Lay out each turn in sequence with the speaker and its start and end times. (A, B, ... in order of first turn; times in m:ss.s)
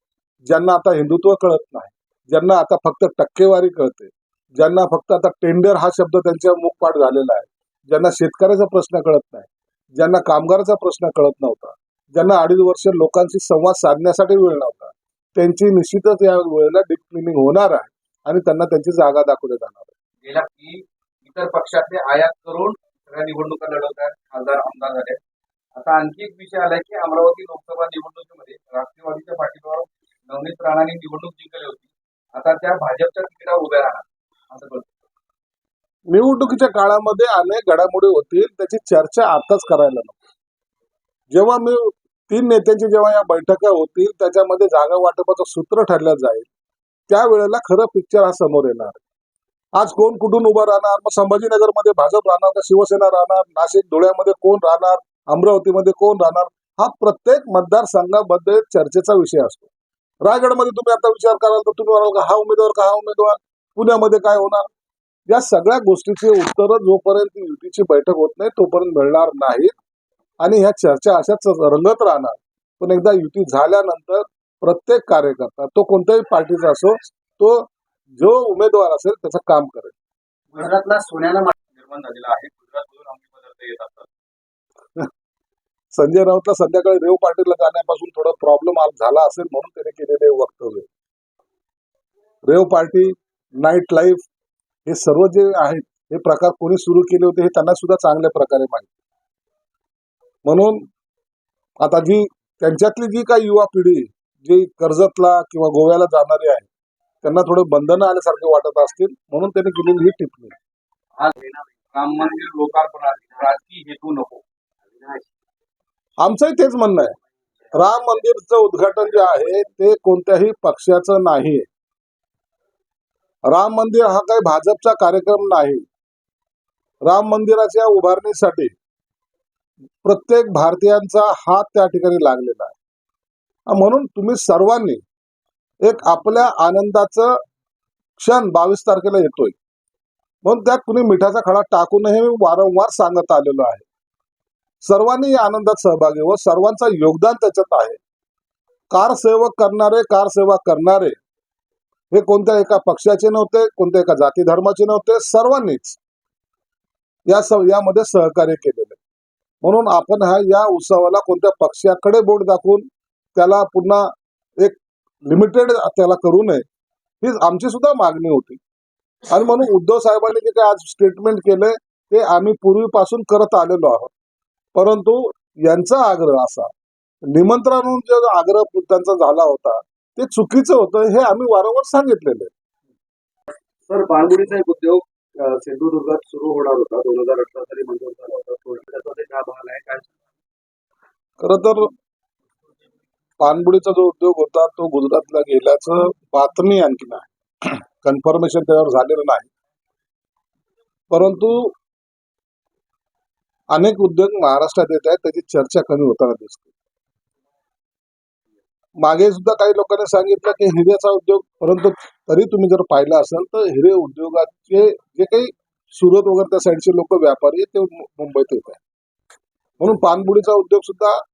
0:00.4-0:19.9 A
0:20.2-0:25.2 B
0:25.8-0:34.9 B
0:36.1-0:40.2 A
0:41.3-0:46.5 A
0:47.1-0:49.0 A
0:49.8-0:59.7 A
1:00.2-1:04.7 A
1:05.3-1:09.7 A
1:10.4-1:20.0 A
1:20.6-1:21.5 C
1:21.8-1:24.1 B
1:25.9-1:30.9 A
1:32.4-1:34.3 A
1:34.9-1:38.9 A
1:40.4-1:40.9 A
1:41.8-1:46.7 A
1:47.2-1:50.6 A
1:51.2-1:52.1 C
1:51.9-1:54.4 B
1:54.9-1:55.3 C
1:56.2-1:57.2 A
1:57.7-2:01.7 A
2:03.5-2:05.9 A
2:07.0-2:08.7 A
2:10.0-2:12.8 A
2:13.7-2:15.0 A
2:15.8-2:17.3 A
2:18.2-2:19.6 A
2:20.4-2:23.8 A
2:24.8-2:28.0 A
2:28.9-2:31.2 A
2:32.1-2:36.0 A
2:37.3-2:39.0 A
2:39.6-2:44.1 A
2:44.6-2:46.6 A
2:47.2-2:48.6 A
2:49.3-2:54.1 A
2:54.7-2:56.7 A
2:57.3-3:02.5 A
3:03.9-3:10.1 C
3:11.4-3:11.9 A
3:13.4-3:19.5 A
3:21.1-3:21.8 A
3:23.7-3:26.7 A
3:29.0-3:38.8 A
3:39.8-3:41.2 A